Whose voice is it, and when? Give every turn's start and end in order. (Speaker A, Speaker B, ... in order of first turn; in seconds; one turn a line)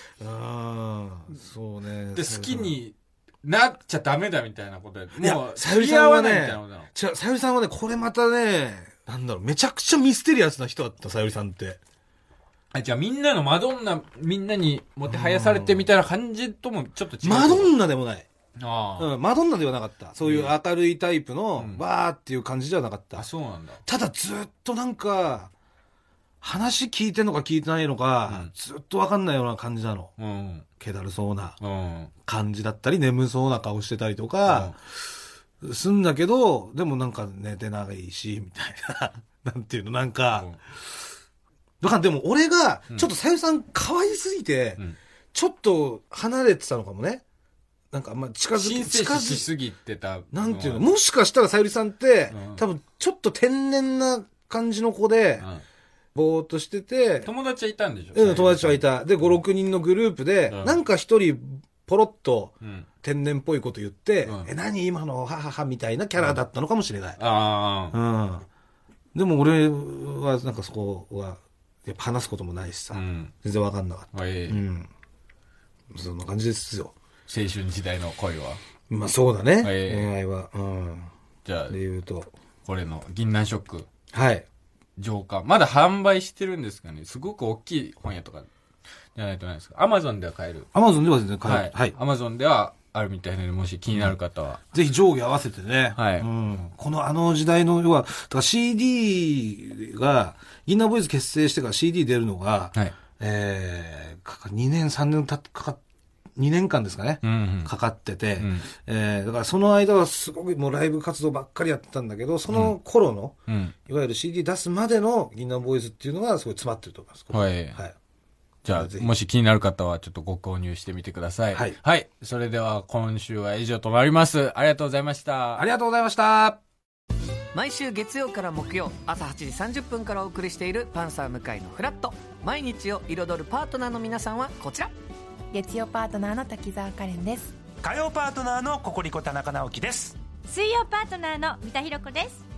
Speaker A: 0.2-2.8
Speaker B: 2.1-6.9
Speaker A: 5.2-11.8
Speaker B: 12.7-17.8
Speaker A: 15.1-15.9
Speaker A: 17.2-18.3
Speaker B: 18.6-19.1
Speaker A: 19.0-23.2
Speaker B: 20.2-20.6
Speaker B: 21.6-21.8
Speaker B: 23.2-23.8
Speaker A: 23.9-25.5
Speaker A: 26.4-30.1
Speaker B: 30.2-30.6
Speaker A: 30.8-31.6
Speaker B: 31.6-32.1
Speaker A: 32.3-35.0
Speaker B: 34.5-34.7
Speaker A: 35.6-40.5
Speaker B: 40.3-40.6
Speaker A: 41.8-44.8
Speaker A: 45.3-47.2
Speaker A: 47.9-49.5
Speaker B: 48.5-50.9
Speaker A: 50.3-55.5
Speaker B: 52.3-52.6
Speaker A: 56.1-57.3
Speaker B: 57.2-59.4
Speaker A: 58.1-67.2
Speaker B: 60.5-60.8
Speaker B: 64.2-64.5
Speaker B: 67.2-68.0
Speaker A: 67.9-68.5
Speaker A: 69.1-74.9
Speaker B: 72.9-73.3
Speaker B: 74.1-74.6
Speaker A: 75.9-76.9
Speaker B: 77.3-78.6
Speaker A: 78.9-81.1
Speaker B: 79.6-80.1
Speaker B: 81.5-81.8
Speaker A: 81.7-82.3
Speaker B: 82.7-83.9
Speaker A: 84.1-84.5
Speaker B: 85.0-88.5
Speaker B: 89.2-90.7
Speaker A: 90.7-92.0
Speaker B: 91.5-94.6
Speaker A: 94.7-105.8
Speaker B: 96.0-96.3
Speaker A: 106.4-113.4
Speaker B: 107.2-107.7
Speaker B: 108.4-108.7
Speaker B: 112.5-112.8
Speaker B: 113.5-113.7
Speaker A: 113.9-118.0
Speaker B: 117.3-117.8
Speaker B: 118.7-125.7
Speaker A: 118.7-119.1
Speaker A: 125.6-126.6
Speaker C: 127.5-134.9
Speaker D: 135.5-137.6
Speaker E: 137.8-140.1
Speaker F: 140.5-142.4